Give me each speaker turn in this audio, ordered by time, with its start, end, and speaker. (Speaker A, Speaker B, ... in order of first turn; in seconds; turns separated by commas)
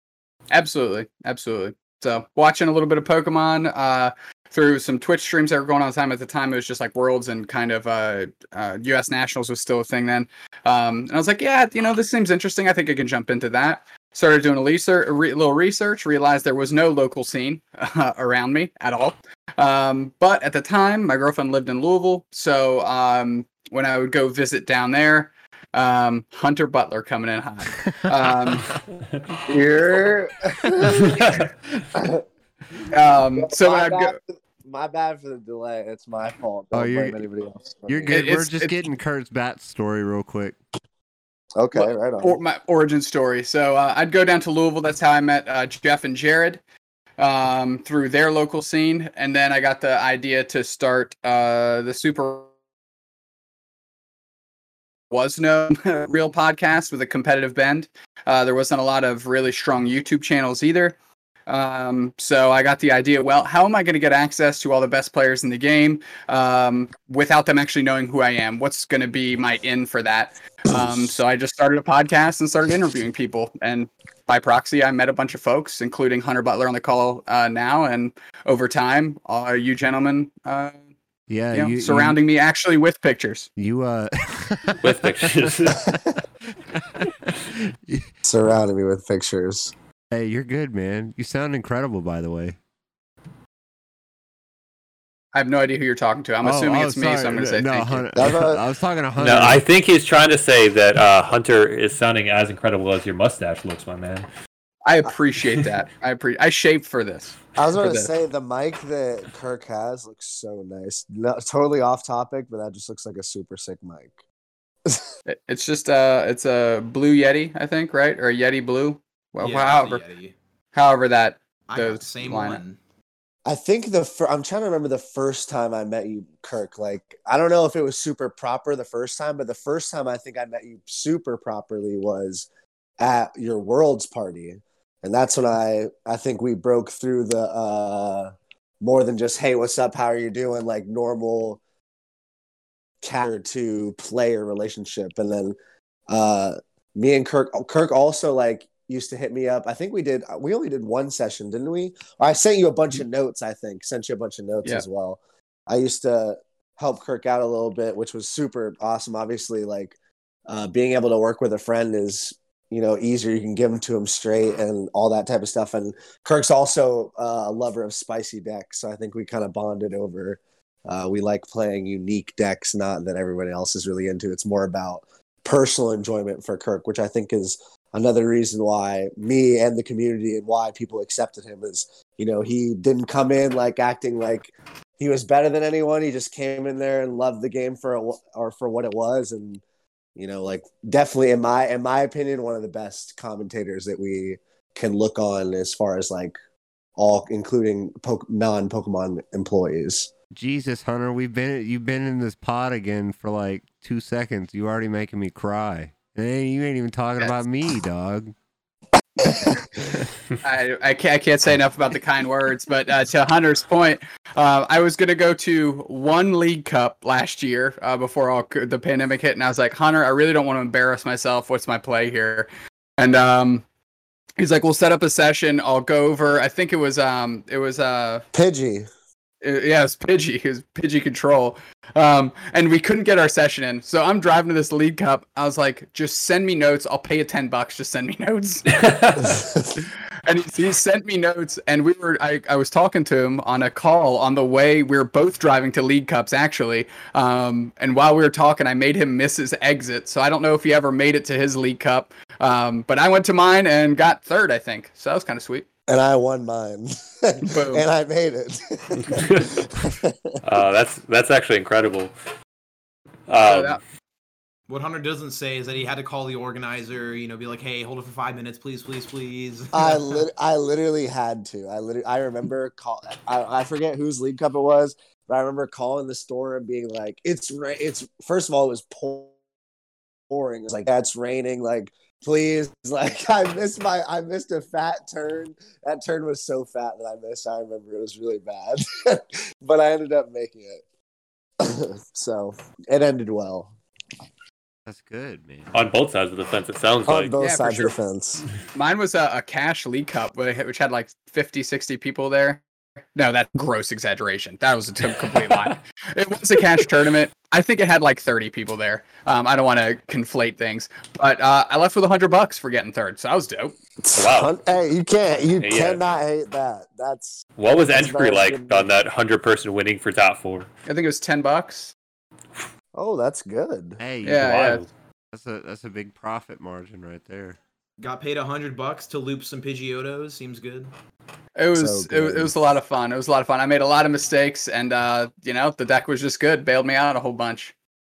Speaker A: 0.5-28.7, Speaker B: 27.8-28.6, Speaker C: 29.5-31.4, Speaker D: 31.0-31.4, Speaker C: 31.9-32.2, Speaker A: 32.9-34.1, Speaker C: 33.4-38.1, Speaker B: 36.7-37.3, Speaker B: 37.9-40.6, Speaker A: 38.1-38.8, Speaker C: 41.6-42.4, Speaker A: 41.7-46.6, Speaker A: 47.2-52.5, Speaker A: 55.1-61.0, Speaker A: 61.5-80.8, Speaker B: 81.3-82.2, Speaker A: 81.5-83.5, Speaker B: 83.6-86.0, Speaker D: 84.8-85.9, Speaker B: 86.5-88.1, Speaker C: 88.2-89.7, Speaker B: 90.1-92.6, Speaker A: 95.3-98.1, Speaker B: 96.4-99.6, Speaker C: 98.2-98.6, Speaker D: 99.2-104.3, Speaker A: 104.9-108.1, Speaker C: 107.6-114.2, Speaker A: 115.3-120.0, Speaker E: 119.4-120.3, Speaker A: 120.7-122.6, Speaker E: 121.7-122.8, Speaker C: 123.5-132.5, Speaker C: 133.0-141.6, Speaker C: 143.0-145.6, Speaker C: 146.1-159.9, Speaker C: 160.5-189.6, Speaker C: 190.2-196.3, Speaker C: 197.0-200.1, Speaker B: 200.3-208.3, Speaker B: 209.8-210.1, Speaker A: 210.4-223.6, Speaker A: 224.4-228.3, Speaker C: 228.3-228.9, Speaker A: 229.4-238.7, Speaker D: 238.7-239.4, Speaker A: 240.3-255.7, Speaker C: 255.9-260.4, Speaker A: 257.4-257.9, Speaker D: 260.4-262.1, Speaker D: 263.3-263.8, Speaker A: 263.4-263.8, Speaker E: 264.7-270.2, Speaker C: 269.7-279.3, Speaker C: 280.3-290.8, Speaker C: 291.6-293.8, Speaker B: 294.9-295.7, Speaker D: 295.7-297.3, Speaker C: 297.1-298.4, Speaker A: 297.4-297.9, Speaker A: 298.7-302.6, Speaker A: 303.2-313.8, Speaker C: 314.0-318.9, Speaker D: 314.1-314.5, Speaker D: 315.6-316.0, Speaker D: 317.6-320.7, Speaker A: 320.9-321.9, Speaker C: 322.9-324.0, Speaker B: 324.0-324.8, Speaker A: 324.2-324.9, Speaker D: 324.4-324.9, Speaker B: 325.3-327.6, Speaker E: 328.0-330.9, Speaker A: 331.6-337.7, Speaker C: 331.8-332.6